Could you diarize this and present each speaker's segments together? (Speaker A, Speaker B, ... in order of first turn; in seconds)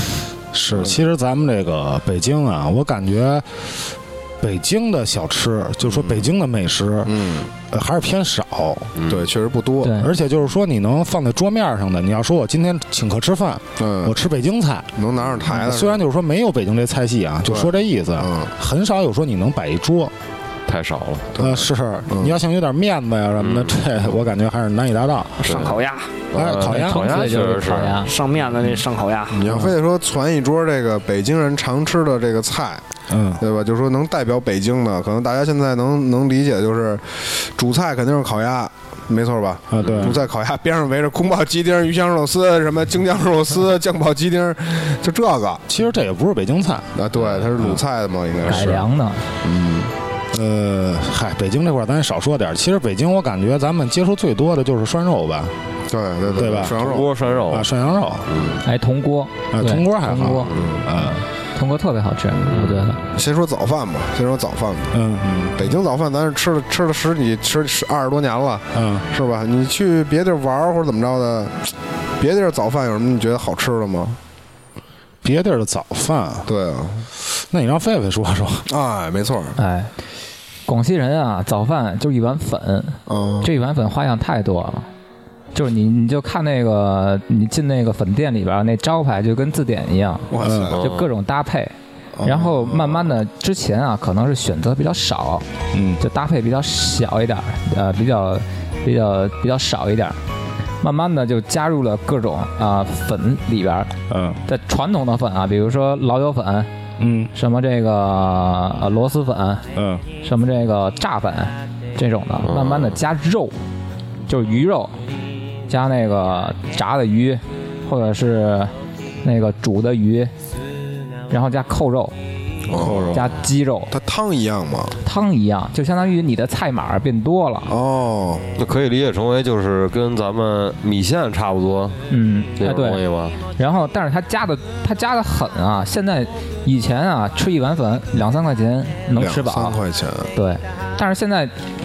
Speaker A: 0.5-8.9, 9.9-14.9, 15.5-20.1, 21.4-25.5, 26.3-27.2, 29.5-29.7, 33.1-33.4, 39.7-40.2, 45.7-46.9, 50.3-55.5, 56.4-56.8, 57.5-58.3, 59.5-61.3, 64.9-65.5, 68.7-69.1, 75.2-76.5, 77.2-78.7, 90.4-90.8, 95.7-96.0, 104.1-104.4, 107.0-107.3, 109.8-110.0, 122.9-123.1
Speaker B: 5.9-6.2, 7.0-7.5, 9.1-10.0, 13.8-14.1, 15.0-16.0, 17.5-18.5, 21.4-22.4, 29.3-32.8, 33.4-45.6, 47.0-48.9, 49.4-49.9, 55.9-57.2, 60.6-60.8, 63.1-71.6, 72.2-74.2, 76.5-77.1, 78.7-79.6, 83.1-83.5, 90.3-90.8, 92.2-93.1, 122.7-123.2, 123.9-125.0, 127.7-128.5, 139.2-140.3
Speaker C: 9.0-9.3, 20.7-21.3, 23.4-23.9, 25.4-25.8, 26.3-28.0, 39.8-40.2, 47.1-47.5, 56.3-57.7, 58.2-58.6, 60.3-60.9, 62.5-62.9, 90.7-91.1, 112.4-113.0, 122.7-123.2, 128.6-132.0, 132.6-133.4
Speaker D: 9.8-10.1, 26.6-28.1, 48.5-49.3, 58.6-60.5, 61.5-63.0, 79.6-79.9, 80.7-84.9, 85.5-95.5, 96.0-100.2, 100.8-103.9, 104.5-106.7, 107.3-109.7, 110.2-113.6, 114.3-115.0, 115.7-120.3, 121.3-122.2, 123.1-123.9, 125.0-127.7, 132.1-139.8, 140.3-141.6
Speaker E: 25.4-26.1, 28.0-29.4